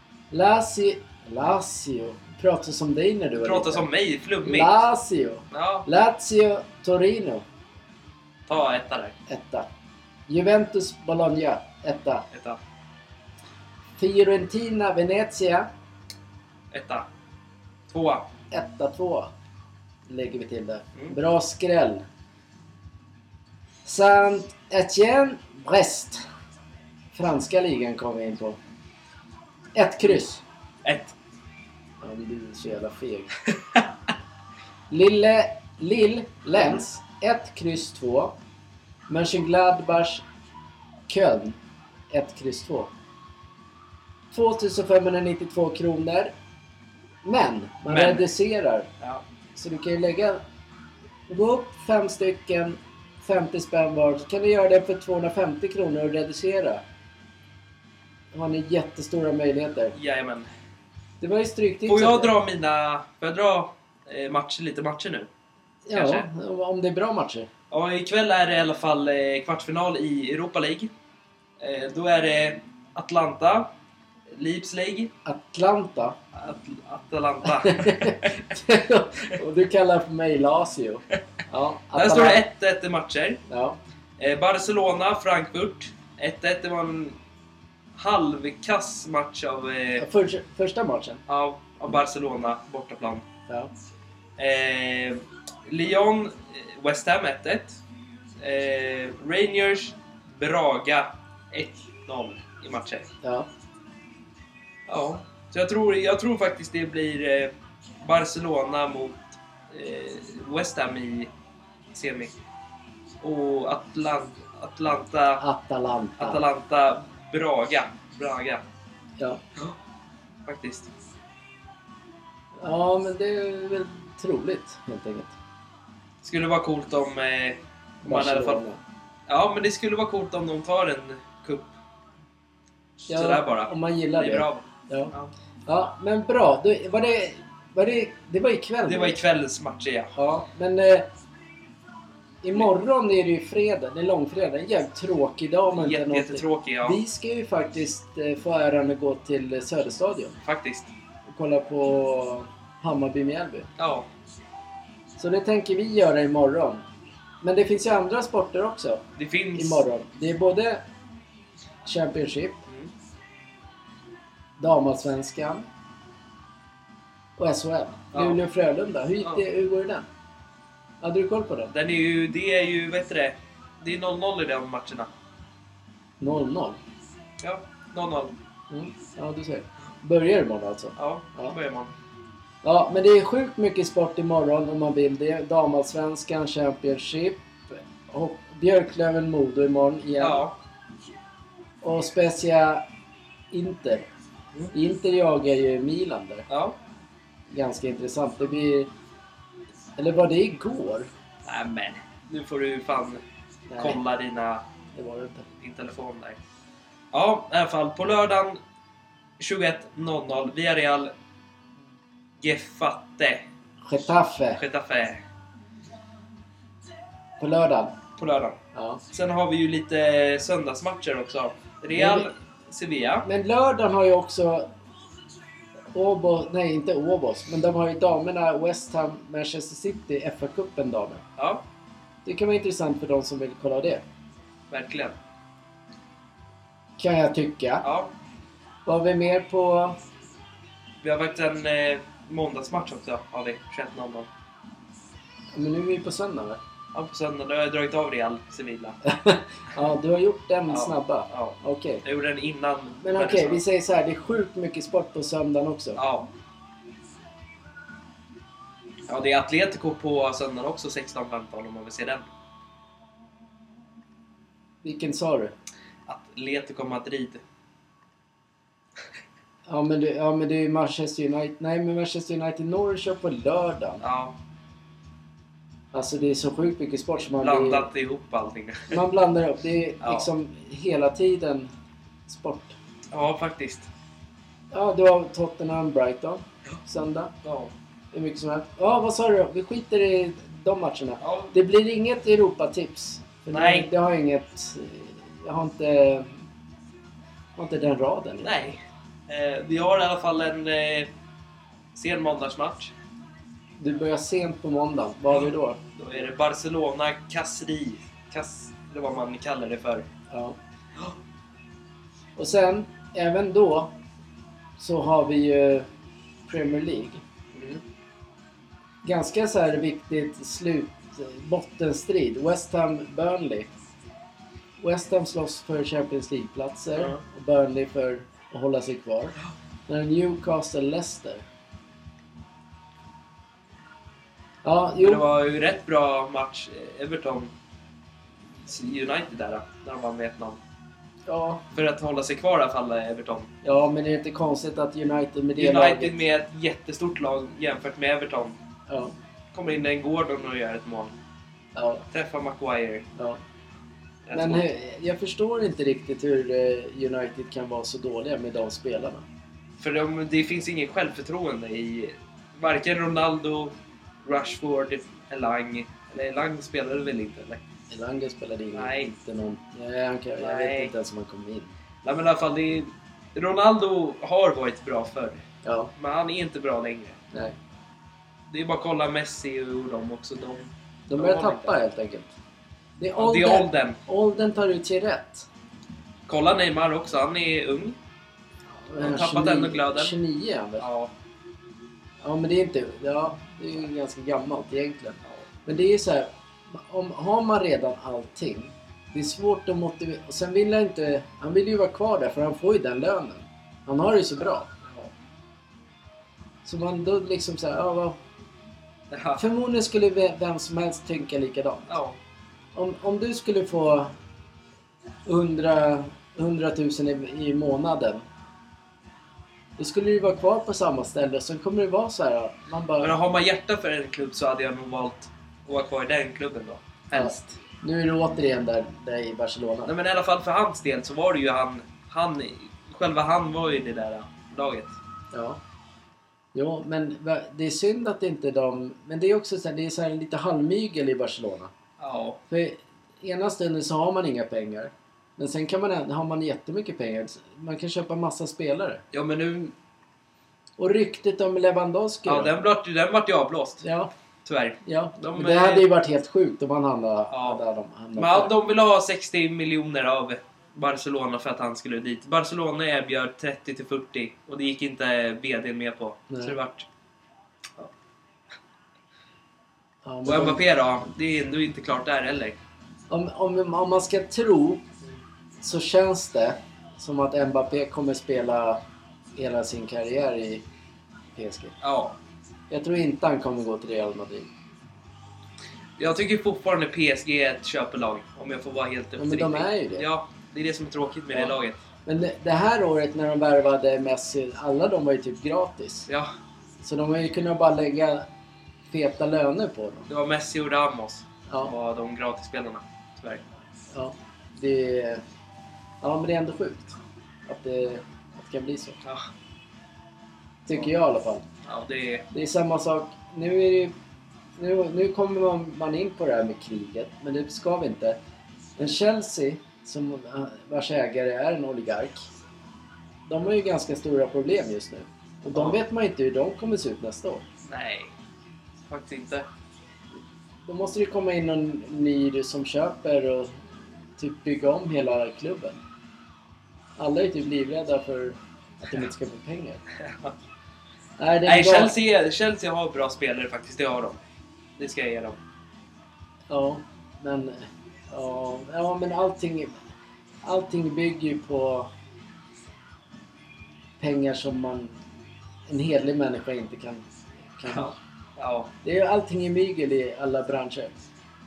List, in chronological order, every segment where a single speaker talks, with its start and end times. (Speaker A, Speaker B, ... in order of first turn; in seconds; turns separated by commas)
Speaker A: 0.3-3.9, Speaker B: 3.4-4.8, Speaker A: 4.4-7.4, Speaker B: 5.5-5.8, Speaker B: 8.5-9.1, Speaker A: 9.3-9.7, Speaker A: 10.3-12.2, Speaker B: 12.3-12.6, Speaker A: 14.0-15.7, Speaker B: 16.7-17.1, Speaker B: 17.9-18.3, Speaker A: 18.5-19.3, Speaker A: 20.1-22.0, Speaker A: 23.8-26.2, Speaker A: 27.1-28.6, Speaker A: 29.7-30.4, Speaker B: 30.8-31.1, Speaker A: 32.0-33.4, Speaker B: 33.5-33.9, Speaker A: 34.9-38.3, Speaker A: 39.1-40.2, Speaker A: 41.1-41.6, Speaker A: 42.1-42.9, Speaker A: 44.3-46.3, Speaker A: 47.2-48.9, Speaker B: 47.9-48.2, Speaker A: 49.5-50.4, Speaker A: 51.3-56.8, Speaker A: 58.3-60.0, Speaker B: 59.9-60.5, Speaker A: 61.2-62.3, Speaker B: 61.9-65.3, Speaker A: 65.8-67.5, Speaker B: 65.9-66.3, Speaker B: 67.7-70.9, Speaker B: 71.6-73.7, Speaker B: 74.3-75.1, Speaker A: 75.2-76.2, Speaker B: 76.3-78.4, Speaker A: 77.5-82.4, Speaker B: 81.9-83.4, Speaker A: 83.5-83.8, Speaker B: 84.2-87.2, Speaker B: 87.9-90.0, Speaker A: 90.0-91.2, Speaker B: 91.3-93.2, Speaker B: 94.4-97.8, Speaker B: 98.4-103.1, Speaker A: 103.2-103.5, Speaker B: 104.9-111.3, Speaker B: 111.9-112.3, Speaker B: 113.2-115.4, Speaker A: 115.4-116.4, Speaker B: 116.2-118.6, Speaker B: 120.5-120.9, Speaker A: 122.6-125.3, Speaker B: 126.2-128.6, Speaker A: 128.0-128.8, Speaker B: 129.3-131.7, Speaker B: 133.1-135.3, Speaker A: 133.1-135.1, Speaker A: 135.7-139.2, Speaker B: 138.8-140.1, Speaker A: 140.1-141.1, Speaker A: 142.4-150.4, Speaker B: 145.7-147.0, Speaker B: 150.4-150.9, Speaker A: 151.3-153.7, Speaker B: 153.8-154.1, Speaker A: 155.2-156.8, Speaker A: 157.4-159.0, Speaker B: 159.2-159.8, Speaker A: 159.5-160.8, Speaker A: 161.8-162.6, Speaker A: 164.6-165.7, Speaker A: 167.4-170.1, Speaker B: 168.1-168.4, Speaker A: 171.0-171.7, Speaker B: 171.7-175.1, Speaker A: 176.2-176.8, Speaker B: 177.4-178.3, Speaker A: 178.7-181.6, Speaker B: 181.0-181.9, Speaker A: 182.6-190.4, Speaker B: 190.2-190.5, Speaker A: 191.8-192.8, Speaker A: 193.5-194.1, Speaker A: 194.7-196.4, Speaker B: 196.5-196.8, Speaker A: 197.5-198.9, Speaker A: 200.0-201.1, Speaker B: 201.4-203.2, Speaker A: 203.7-204.0, Speaker B: 203.8-204.6, Speaker A: 204.9-205.5, Speaker B: 205.6-206.4, Speaker B: 207.1-208.6, Speaker B: 209.4-211.1, Speaker B: 212.4-213.4, Speaker A: 213.8-214.6, Speaker B: 214.6-215.2, Speaker A: 217.4-218.0, Speaker B: 218.2-218.6, Speaker A: 218.7-219.0, Speaker B: 219.1-223.2, Speaker A: 221.9-222.3, Speaker A: 223.2-224.7, Speaker A: 225.9-231.2, Speaker B: 231.4-231.6, Speaker A: 232.2-234.0, Speaker B: 234.7-235.2, Speaker A: 237.0-237.8, Speaker B: 237.8-238.1, Speaker A: 238.8-240.0, Speaker B: 241.0-244.3, Speaker A: 245.5-246.6, Speaker B: 246.9-249.0, Speaker A: 249.0-252.0, Speaker B: 250.7-253.6, Speaker A: 253.0-256.0, Speaker B: 256.0-256.3, Speaker B: 259.1-262.2, Speaker A: 264.8-265.5, Speaker B: 266.1-267.4, Speaker A: 269.7-274.0, Speaker B: 274.0-274.3, Speaker A: 275.9-277.9, Speaker B: 277.3-279.0, Speaker A: 278.9-281.7, Speaker B: 280.0-280.3, Speaker A: 282.3-282.7, Speaker B: 283.1-283.9, Speaker A: 284.7-287.3, Speaker B: 287.4-287.7, Speaker A: 288.1-296.3, Speaker B: 291.2-291.5, Speaker B: 293.5-293.9, Speaker A: 297.6-298.5, Speaker B: 298.4-301.1, Speaker B: 301.9-302.9, Speaker A: 303.8-305.8, Speaker B: 305.3-310.1, Speaker A: 310.3-310.6, Speaker A: 312.4-313.9, Speaker A: 314.8-315.9, Speaker A: 316.5-317.2, Speaker B: 317.5-317.8, Speaker A: 319.0-323.7, Speaker A: 324.8-329.4, Speaker A: 329.9-331.4, Speaker A: 334.6-335.2, Speaker B: 335.0-337.5, Speaker B: 338.6-340.6, Speaker A: 341.3-341.6, Speaker B: 341.7-343.5, Speaker A: 343.6-346.2, Speaker B: 345.6-348.6, Speaker A: 348.9-349.1, Speaker B: 349.5-351.1, Speaker A: 351.7-352.0, Speaker B: 352.1-353.0, Speaker B: 354.2-354.6, Speaker A: 354.3-359.2, Speaker B: 359.8-367.6, Speaker A: 367.9-371.7, Speaker B: 368.7-369.1, Speaker B: 370.4-370.9, Speaker B: 372.0-375.4, Speaker A: 375.6-375.9, Speaker B: 376.0-377.2, Speaker B: 378.5-381.8, Speaker A: 381.1-382.3, Speaker A: 383.0-385.5, Speaker B: 383.1-384.0, Speaker B: 386.3-388.0, Speaker A: 388.8-390.8, Speaker B: 389.0-390.1, Speaker B: 390.8-391.1, Speaker A: 392.2-404.7, Speaker B: 404.8-405.1, Speaker A: 406.6-408.2, Speaker B: 409.1-409.4, Speaker A: 409.4-411.9, Speaker B: 411.9-412.2, Speaker A: 412.7-414.1, Speaker A: 415.2-418.2, Speaker A: 419.8-423.1, Speaker B: 423.0-427.6, Speaker A: 427.1-429.9, Speaker B: 429.9-434.9, Speaker A: 435.3-435.6, Speaker A: 436.5-441.7, Speaker B: 442.0-442.4, Speaker A: 442.5-449.0, Speaker B: 449.1-449.7, Speaker A: 450.8-452.5, Speaker B: 452.2-453.8, Speaker A: 453.8-454.1, Speaker B: 454.4-455.9, Speaker A: 454.8-458.5, Speaker B: 457.3-457.6, Speaker B: 458.1-466.9, Speaker A: 466.3-466.5, Speaker A: 470.0-470.6, Speaker B: 470.2-472.6, Speaker A: 473.1-474.8, Speaker A: 475.6-478.8, Speaker A: 479.4-480.6, Speaker A: 481.4-481.7, Speaker B: 481.8-482.2, Speaker A: 482.7-484.5, Speaker B: 486.0-491.8, Speaker A: 489.2-490.1, Speaker A: 492.1-496.1, Speaker A: 496.8-498.2, Speaker A: 498.9-500.1, Speaker B: 500.1-503.4, Speaker A: 503.9-505.2, Speaker A: 506.0-509.0, Speaker B: 509.0-509.3, Speaker A: 510.6-511.4, Speaker B: 511.6-512.2, Speaker A: 512.3-513.9, Speaker A: 514.6-518.2, Speaker A: 518.8-522.3, Speaker A: 523.3-527.4, Speaker B: 525.5-525.8, Speaker B: 527.6-528.1, Speaker B: 528.9-529.5, Speaker A: 530.7-533.6, Speaker A: 534.2-535.8, Speaker A: 537.0-539.8, Speaker B: 540.0-540.3, Speaker A: 541.2-541.9, Speaker B: 541.4-544.2, Speaker B: 544.8-545.4, Speaker A: 546.5-549.7, Speaker A: 550.4-551.9, Speaker A: 554.0-554.9, Speaker A: 555.7-558.0, Speaker B: 557.7-558.7, Speaker A: 558.8-561.0